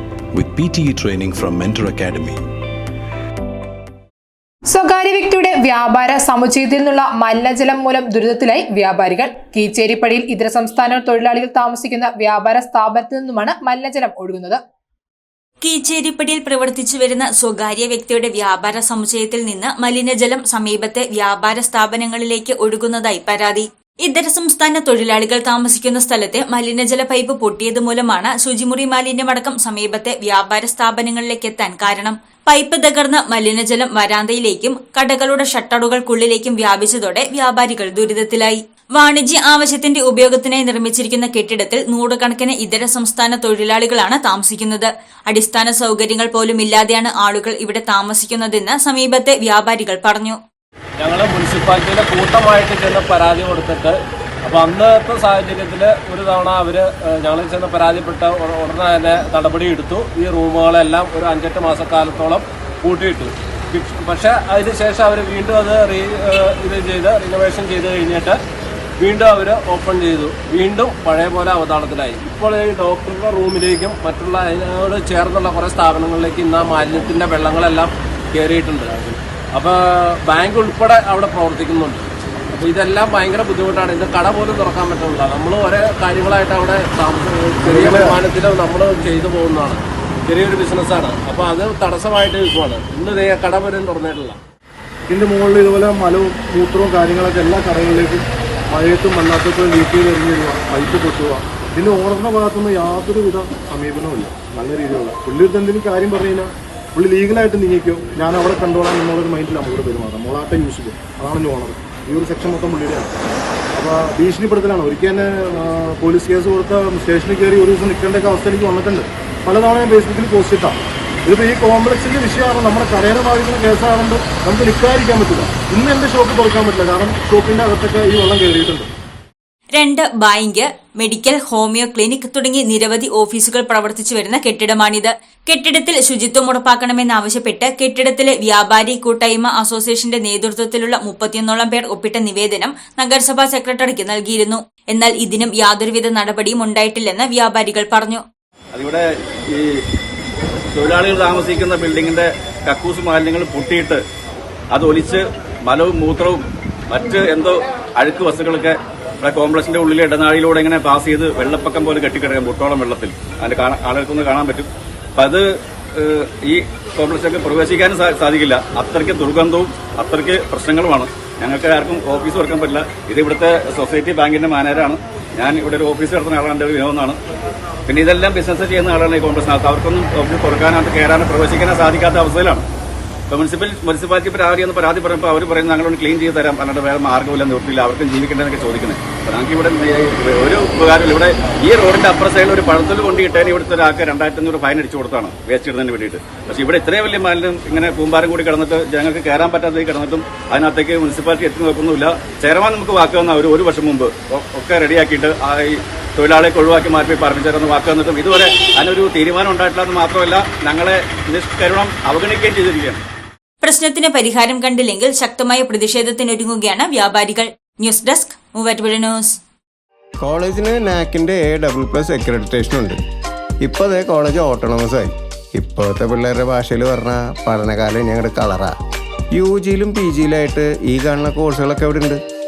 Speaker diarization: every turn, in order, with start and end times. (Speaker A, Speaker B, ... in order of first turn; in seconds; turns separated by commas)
Speaker A: 0.3-2.4, Speaker B: 4.7-14.6, Speaker C: 15.6-50.4, Speaker D: 51.0-68.4, Speaker D: 69.0-94.4, Speaker E: 87.7-88.2, Speaker E: 95.1-113.1, Speaker E: 113.7-128.9, Speaker C: 129.7-148.2, Speaker F: 148.7-149.7, Speaker F: 150.7-154.0, Speaker F: 154.7-165.4, Speaker F: 166.0-177.2, Speaker F: 177.9-182.7, Speaker F: 183.3-213.0, Speaker C: 213.6-219.4, Speaker G: 220.2-223.0, Speaker G: 223.6-228.7, Speaker G: 229.3-232.2